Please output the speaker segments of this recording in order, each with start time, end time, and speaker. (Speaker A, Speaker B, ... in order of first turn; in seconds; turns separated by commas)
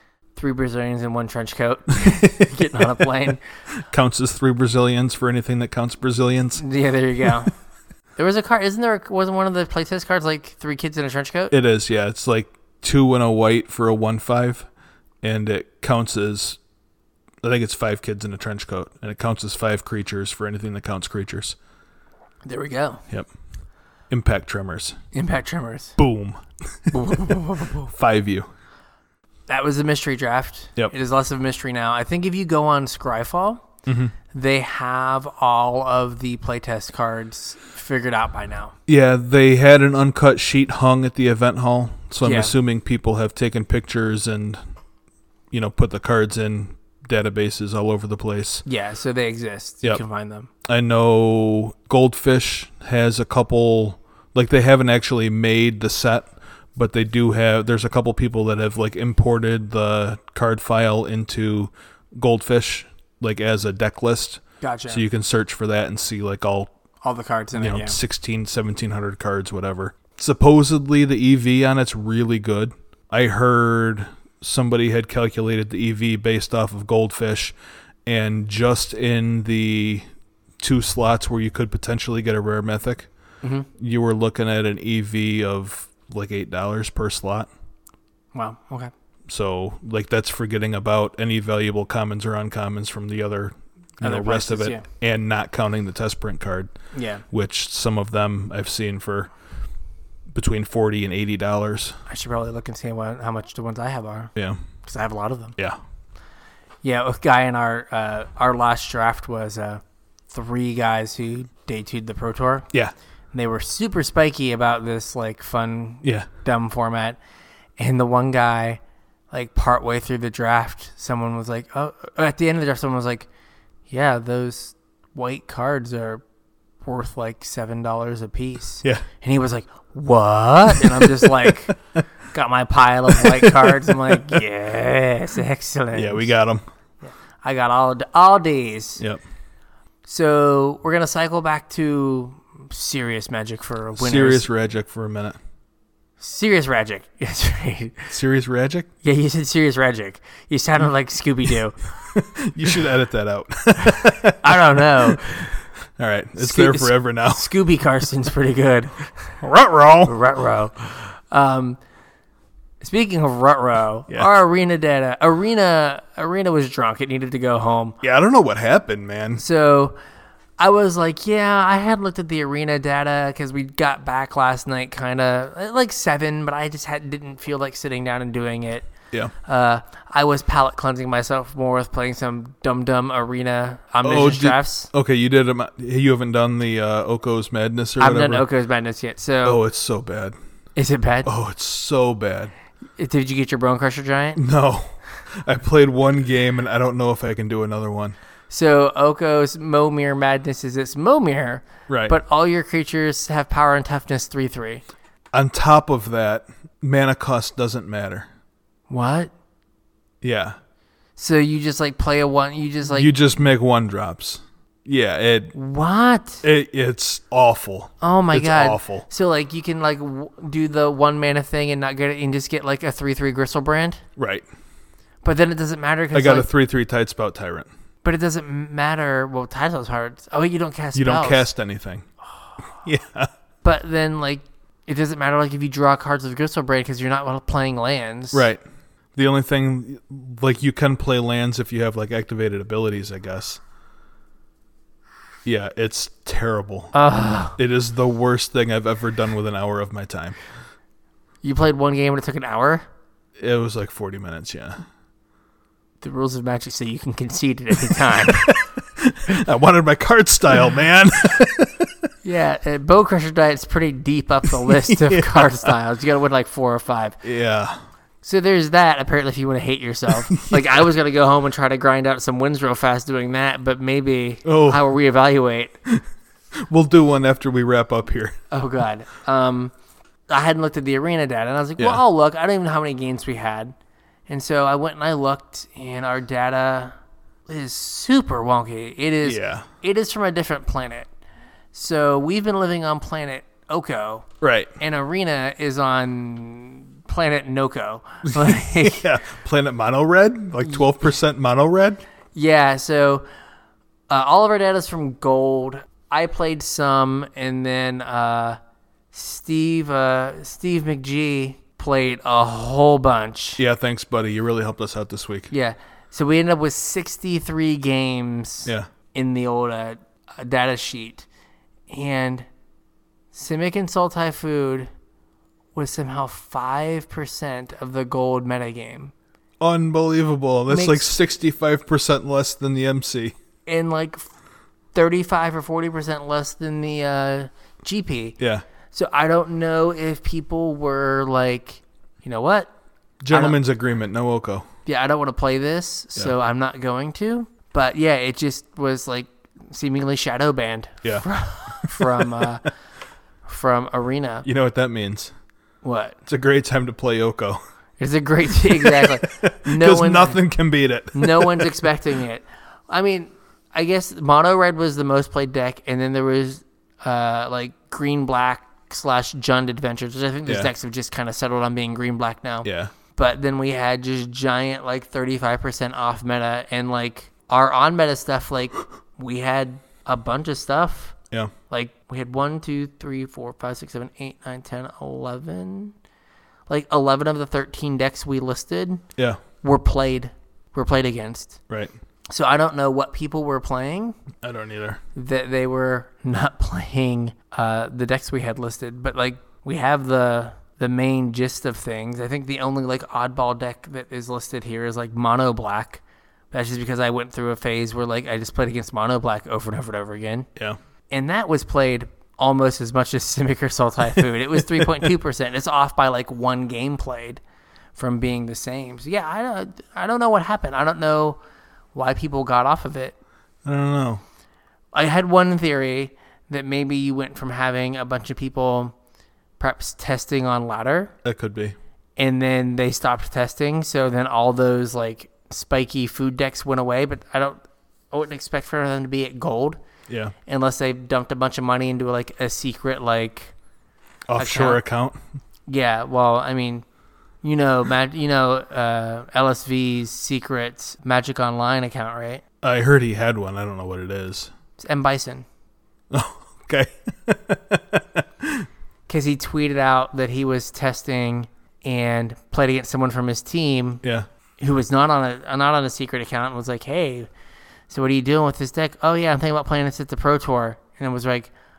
Speaker A: 0.4-3.4, Speaker B: 3.8-6.6, Speaker A: 6.6-7.5, Speaker A: 8.2-11.5, Speaker B: 11.5-14.7, Speaker B: 15.2-16.6, Speaker B: 17.4-21.6, Speaker A: 22.5-23.0, Speaker B: 24.1-25.0, Speaker A: 25.1-26.0, Speaker B: 26.0-28.5, Speaker A: 26.9-27.9, Speaker A: 29.5-33.6, Speaker B: 33.9-34.1, Speaker A: 34.3-38.8, Speaker B: 38.9-44.6, Speaker A: 42.2-42.5, Speaker B: 45.5-48.6, Speaker A: 48.6-50.5, Speaker B: 50.7-66.7, Speaker A: 64.6-65.0, Speaker A: 67.0-68.0, Speaker B: 67.6-77.5, Speaker B: 78.1-80.1, Speaker B: 80.6-83.1, Speaker A: 83.4-83.7, Speaker B: 83.8-87.5, Speaker A: 88.3-88.9, Speaker B: 89.3-96.7, Speaker A: 94.0-94.8, Speaker A: 96.9-97.2, Speaker B: 97.3-99.3, Speaker B: 100.3-102.0, Speaker A: 102.1-104.3, Speaker A: 104.8-105.6, Speaker A: 106.8-112.7, Speaker A: 113.3-117.2, Speaker B: 116.0-116.3, Speaker A: 117.8-118.8, Speaker A: 119.3-123.3, Speaker A: 123.9-126.2, Speaker A: 126.8-131.8, Speaker B: 130.7-132.0, Speaker A: 132.3-136.3, Speaker B: 133.1-134.4, Speaker B: 135.9-136.6, Speaker A: 137.0-139.0, Speaker A: 140.1-144.5, Speaker B: 144.0-145.4, Speaker A: 146.2-148.1, Speaker B: 148.1-148.9, Speaker A: 149.0-152.0, Speaker B: 152.1-155.2, Speaker A: 154.4-155.6, Speaker B: 156.0-157.5, Speaker A: 156.4-159.3, Speaker B: 159.4-160.2, Speaker A: 160.1-161.8, Speaker A: 162.8-168.0, Speaker B: 168.0-169.4, Speaker A: 169.4-170.0, Speaker A: 170.6-178.9, Speaker A: 179.4-184.9, Speaker B: 184.0-188.5, Speaker A: 188.0-189.6, Speaker B: 189.4-190.3, Speaker A: 190.8-191.3, Speaker B: 191.2-192.5, Speaker A: 193.0-194.4, Speaker B: 194.4-198.2, Speaker A: 198.5-204.8, Speaker B: 201.9-202.2, Speaker B: 205.3-208.3, Speaker A: 208.9-209.3, Speaker B: 210.2-210.6, Speaker A: 211.2-213.1, Speaker B: 212.9-215.5, Speaker A: 215.5-216.4, Speaker B: 216.4-219.1, Speaker A: 218.0-224.0, Speaker B: 224.2-224.4, Speaker A: 225.2-226.5, Speaker B: 226.1-227.7, Speaker A: 228.0-231.5, Speaker B: 230.9-232.1, Speaker B: 232.8-233.3, Speaker A: 233.6-238.5, Speaker B: 238.3-238.6, Speaker B: 239.2-243.6, Speaker B: 245.4-246.9, Speaker A: 246.9-247.6, Speaker B: 247.6-250.4, Speaker A: 251.4-252.9, Speaker B: 253.4-254.8, Speaker A: 256.0-258.5, Speaker B: 257.9-261.9, Speaker A: 262.2-267.2, Speaker B: 264.7-265.8, Speaker B: 267.2-267.8, Speaker A: 268.2-275.8, Speaker B: 270.3-270.6, Speaker B: 274.4-274.8, Speaker B: 276.6-278.4, Speaker A: 278.5-279.7, Speaker A: 280.3-283.7, Speaker A: 284.3-287.0, Speaker A: 287.5-291.1, Speaker B: 289.2-289.7, Speaker A: 291.7-294.3, Speaker B: 294.4-294.8, Speaker A: 294.8-299.1, Speaker B: 298.3-302.0, Speaker A: 302.4-303.3, Speaker A: 304.1-308.6, Speaker A: 309.1-313.6, Speaker B: 313.6-315.5, Speaker A: 315.5-321.3, Speaker A: 321.9-322.5, Speaker A: 323.3-324.9, Speaker A: 325.8-329.1, Speaker B: 329.6-333.3, Speaker A: 330.7-331.1, Speaker A: 333.7-334.3, Speaker A: 334.9-338.4, Speaker B: 338.4-338.6, Speaker A: 338.9-342.7, Speaker B: 343.2-344.7, Speaker A: 343.3-343.6, Speaker A: 344.9-352.7, Speaker B: 351.0-352.7, Speaker A: 353.5-354.5, Speaker B: 354.4-355.3, Speaker A: 355.8-356.2, Speaker B: 356.3-357.6, Speaker A: 358.0-360.4, Speaker B: 358.6-361.8, Speaker A: 361.1-381.2, Speaker B: 372.6-372.9, Speaker A: 381.7-385.9, Speaker A: 386.7-389.0, Speaker A: 389.6-391.6, Speaker A: 392.3-394.2, Speaker B: 394.4-395.0, Speaker A: 395.1-410.5, Speaker A: 411.1-417.4, Speaker A: 418.0-421.4, Speaker A: 421.9-423.2, Speaker B: 423.6-424.2, Speaker A: 424.9-428.9, Speaker A: 429.6-431.1, Speaker B: 431.2-431.8, Speaker A: 432.2-437.6, Speaker A: 438.1-439.8, Speaker B: 440.1-440.4, Speaker A: 440.4-443.5, Speaker B: 444.3-445.2, Speaker A: 444.4-444.8, Speaker A: 445.7-446.9, Speaker A: 447.4-452.4, Speaker B: 452.6-454.5, Speaker A: 454.8-455.5, Speaker B: 456.1-458.7, Speaker A: 459.1-464.0, Speaker A: 464.6-467.3, Speaker A: 467.9-471.5